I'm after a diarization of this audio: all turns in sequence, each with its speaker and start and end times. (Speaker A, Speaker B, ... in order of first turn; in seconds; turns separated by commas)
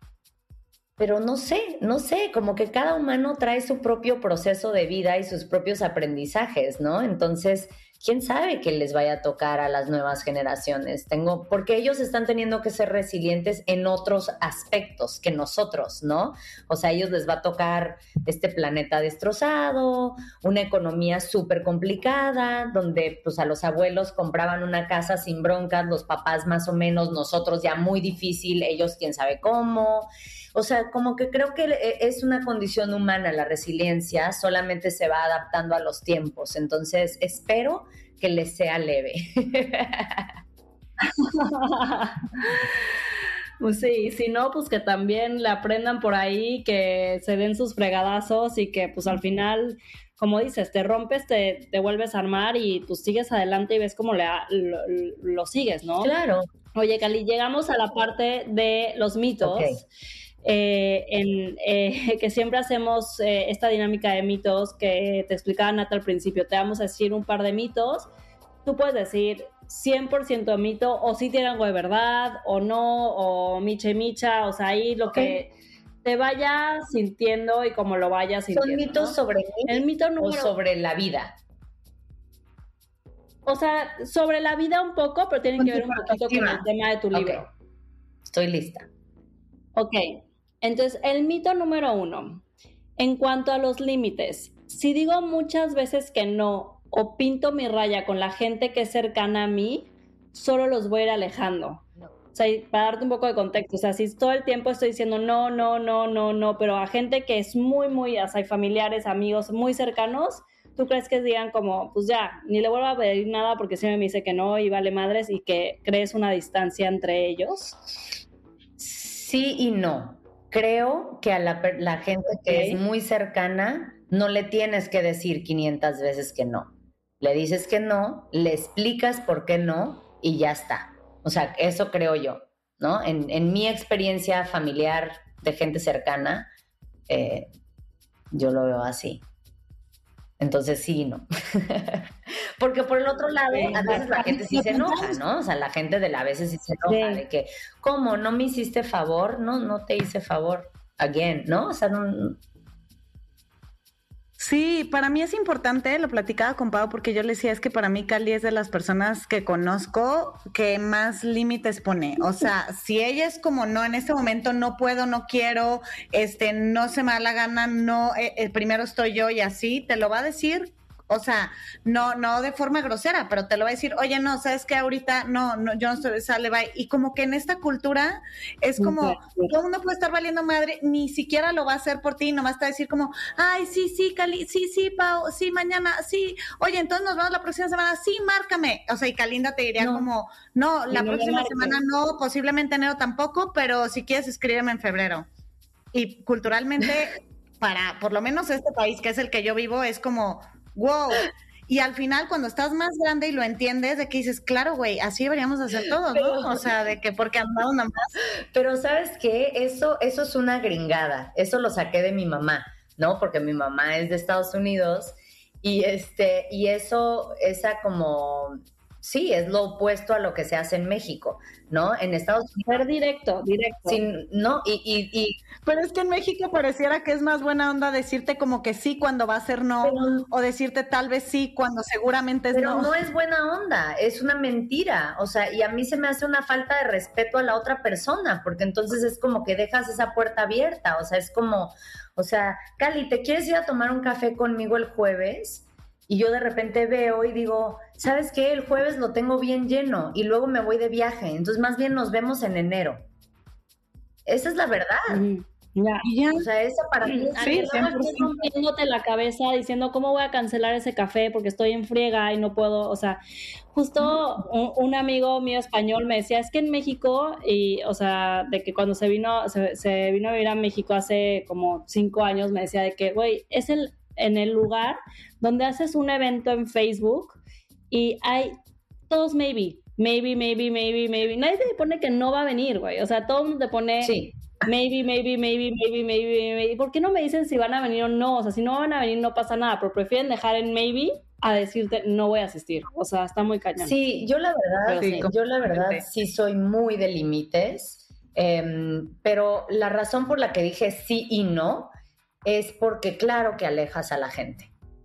Speaker A: 1.0-40.3, Speaker B: 41.1-42.8, Speaker B: 43.6-56.1, Speaker A: 56.0-56.5, Speaker B: 56.7-59.8, Speaker A: 59.4-59.8, Speaker B: 60.4-68.1, Speaker B: 68.6-75.5, Speaker A: 75.1-75.4, Speaker B: 76.0-80.5, Speaker A: 78.5-81.3, Speaker B: 83.5-87.5, Speaker C: 85.6-86.6, Speaker A: 87.1-87.4, Speaker A: 88.2-88.9, Speaker B: 89.8-92.4, Speaker B: 93.0-117.8, Speaker A: 118.8-136.4, Speaker B: 122.5-122.8, Speaker A: 137.1-137.5, Speaker A: 138.3-139.2, Speaker A: 140.4-152.4, Speaker B: 143.5-144.1, Speaker C: 143.7-145.2, Speaker B: 146.9-147.2, Speaker C: 154.4-195.3, Speaker B: 178.8-179.5, Speaker A: 189.8-190.1, Speaker B: 190.9-191.8, Speaker C: 195.9-208.2, Speaker A: 206.2-206.6, Speaker A: 208.5-222.8, Speaker B: 222.7-224.0, Speaker A: 223.9-225.4, Speaker C: 225.6-232.9, Speaker A: 229.8-230.3, Speaker A: 232.5-253.0, Speaker A: 254.2-255.2, Speaker B: 255.1-256.1, Speaker C: 256.0-256.4, Speaker A: 256.4-258.4, Speaker B: 257.1-263.2, Speaker C: 257.4-258.0, Speaker B: 263.7-277.4, Speaker B: 277.9-278.6, Speaker B: 279.1-293.9, Speaker A: 284.0-284.3, Speaker A: 293.8-301.9, Speaker B: 294.9-295.3, Speaker C: 294.9-296.0, Speaker A: 302.4-304.7